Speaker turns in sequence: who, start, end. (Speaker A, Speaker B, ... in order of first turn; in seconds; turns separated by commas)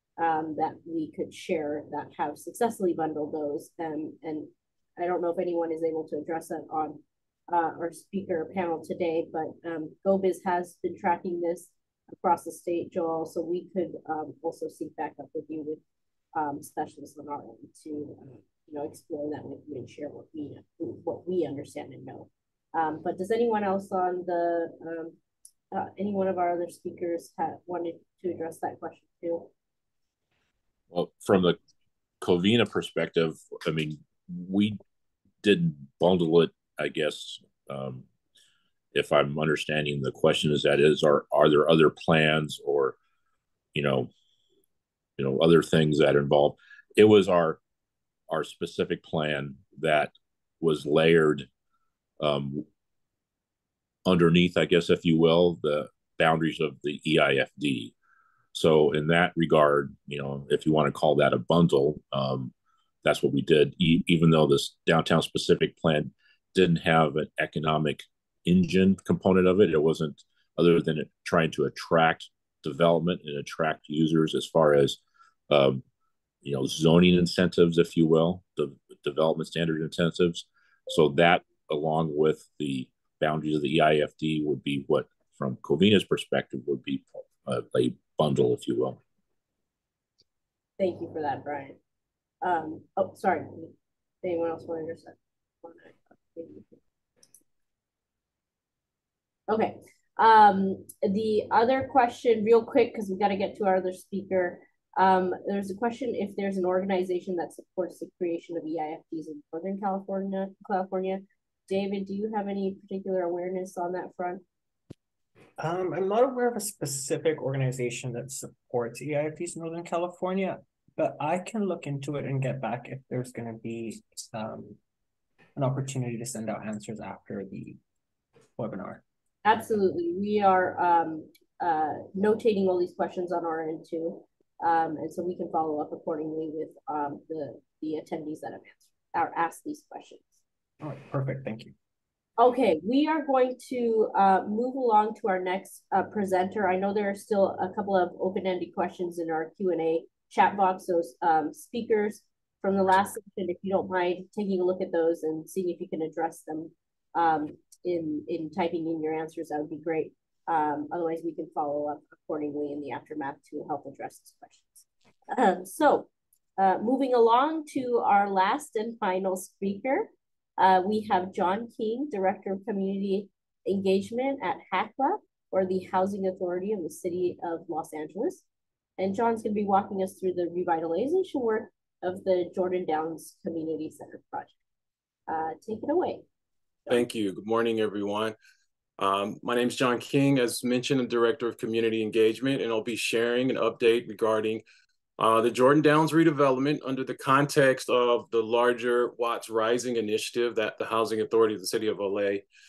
Speaker A: 0.2-15.8, Speaker A: 16.3-25.1, Speaker A: 25.7-29.5, Speaker B: 30.9-31.6, Speaker B: 32.2-34.8, Speaker B: 35.4-38.0, Speaker B: 38.9-43.0, Speaker B: 43.7-44.1, Speaker B: 45.2-47.6, Speaker B: 48.3-51.5, Speaker B: 52.2-52.6, Speaker B: 54.0-57.9, Speaker B: 58.5-75.8, Speaker B: 76.4-89.0, Speaker A: 90.8-91.8, Speaker A: 92.4-96.8, Speaker A: 99.5-114.4, Speaker C: 115.6-124.8, Speaker C: 125.5-127.8, Speaker C: 128.6-129.0, Speaker A: 129.4-140.4, Speaker C: 140.8-141.7, Speaker A: 142.4-178.4, Speaker A: 179.0-184.5, Speaker A: 185.3-186.2, Speaker D: 186.9-188.3, Speaker D: 189.0-194.6, Speaker D: 195.2-202.4